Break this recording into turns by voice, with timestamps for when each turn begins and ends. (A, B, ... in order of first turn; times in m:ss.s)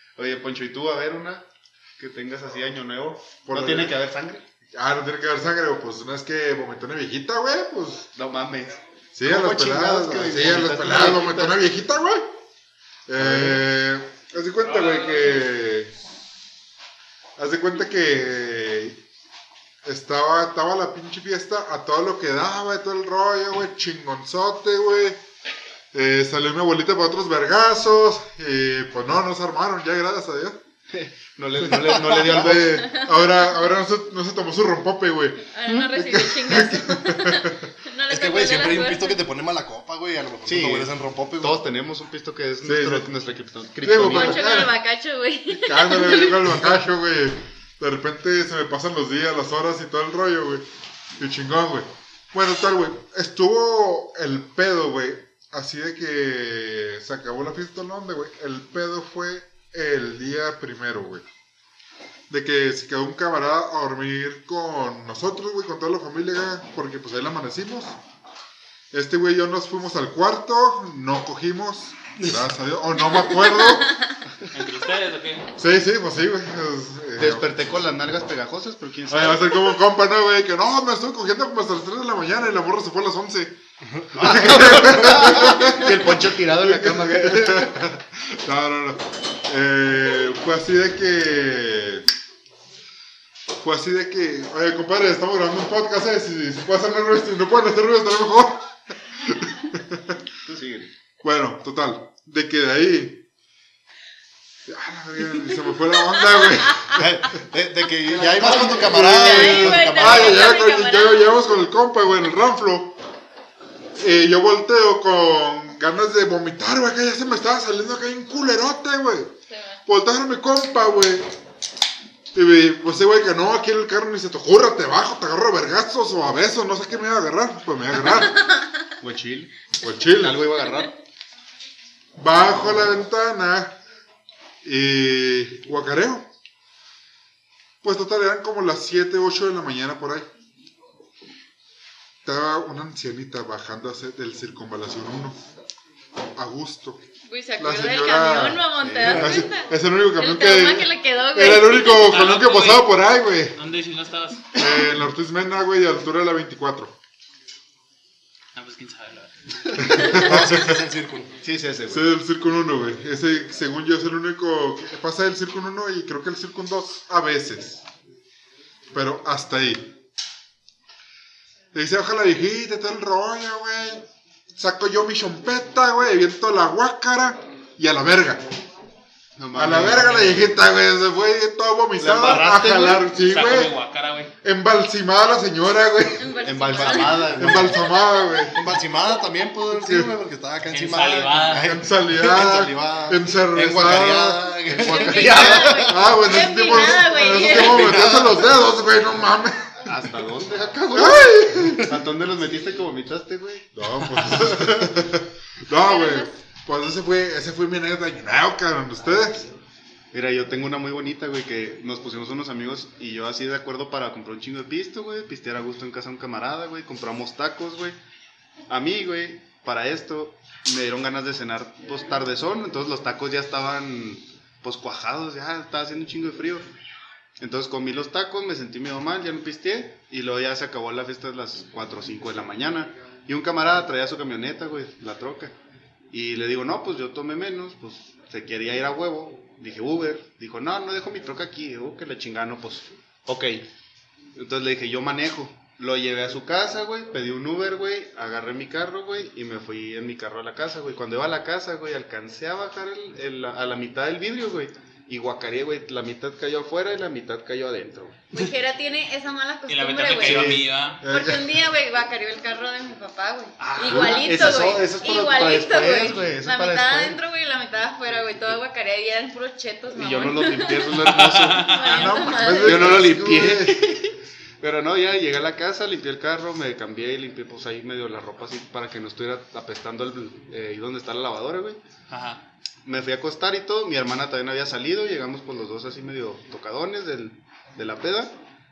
0:00.2-0:01.4 A
0:02.0-0:04.4 A
0:03.4-0:04.0 B
0:04.7-0:08.1 B
0:08.1-0:11.6 A
0:09.2-0:12.3 B
0:13.1-0:15.9 B
0:13.2-0:13.6 A
0:14.7-0:15.4 C
0:17.4-0:19.0 B
0:19.8-0:25.2 B
0:25.9-0:30.6 B
0:30.9-0:32.9 A
0:31.6-0:37.5 B
0:35.5-0:39.2 D
0:38.1-0:41.7 E
0:40.4-0:44.5 A
0:42.6-0:43.1 B
0:43.8-0:44.8 B
0:44.0-0:46.4 D
0:45.5-0:50.7 B
0:51.2-1:01.2 B
1:02.3-1:08.0 B
1:08.9-1:14.0 B
1:13.1-1:14.2 D
1:14.5-1:15.5 C
1:15.6-1:17.5 B
1:17.2-1:19.8 A
1:19.1-1:23.6 B
1:24.0-1:25.5 E
1:24.2-1:32.0 B
1:24.2-1:27.8 A
1:33.6-1:38.7 B
1:39.2-1:40.2 B
1:40.4-1:40.9 A
1:41.2-1:43.3 B
1:44.7-1:47.1 B
1:46.2-1:46.9 D
1:46.9-1:50.4 E
1:48.1-1:49.3 A
1:48.5-1:51.5 D
1:48.7-1:53.0 B
1:54.0-1:59.3 B
1:59.5-1:59.8 D
1:59.9-2:01.3 B
2:02.3-2:08.4 B
2:09.0-2:10.9 A
2:09.8-2:10.5 B
2:12.2-2:13.8 B
2:14.6-2:16.3 B
2:17.8-2:20.3 B
2:22.2-2:25.4 B
2:26.4-2:27.0 B
2:27.3-2:32.2 D
2:27.6-2:33.6 B
2:28.8-2:29.4 A
2:32.0-2:33.0 C
2:33.6-2:34.5 C
2:34.5-2:36.9 B
2:38.6-2:40.0 C
2:39.8-2:40.8 B
2:40.0-2:41.3 E
2:41.4-2:42.0 A
2:41.9-2:47.8 B
2:48.9-2:49.9 B
2:51.7-2:58.4 B
2:59.4-3:00.6 A
2:59.5-3:03.7 B
3:02.0-3:03.1 A
3:03.2-3:04.3 C
3:04.4-3:08.6 B
3:06.2-3:08.4 D
3:06.4-3:07.9 A
3:08.5-3:16.0 E
3:09.7-3:10.1 B
3:10.7-3:11.7 C
3:11.6-3:14.6 B
3:14.7-3:15.9 A
3:14.8-3:17.9 D
3:15.9-3:19.8 B
3:17.6-3:18.6 E
3:19.8-3:24.9 A
3:20.9-3:21.9 B
3:23.7-3:29.5 B
3:25.7-3:26.3 D
3:30.1-3:38.0 A
3:38.7-3:46.7 A
3:47.4-3:55.5 A
3:56.1-4:03.7 A
4:04.4-4:18.2 A
4:18.3-4:30.9 D
4:19.7-4:21.0 C
4:20.1-4:20.6 A
4:21.0-4:21.5 B
4:23.6-4:27.2 A
4:23.8-4:24.6 B
4:29.9-4:31.8 A
4:31.0-4:32.1 C
4:31.6-4:33.0 D
4:31.8-4:33.9 B
4:32.6-4:41.8 A
4:42.1-4:42.4 C
4:42.8-4:48.3 A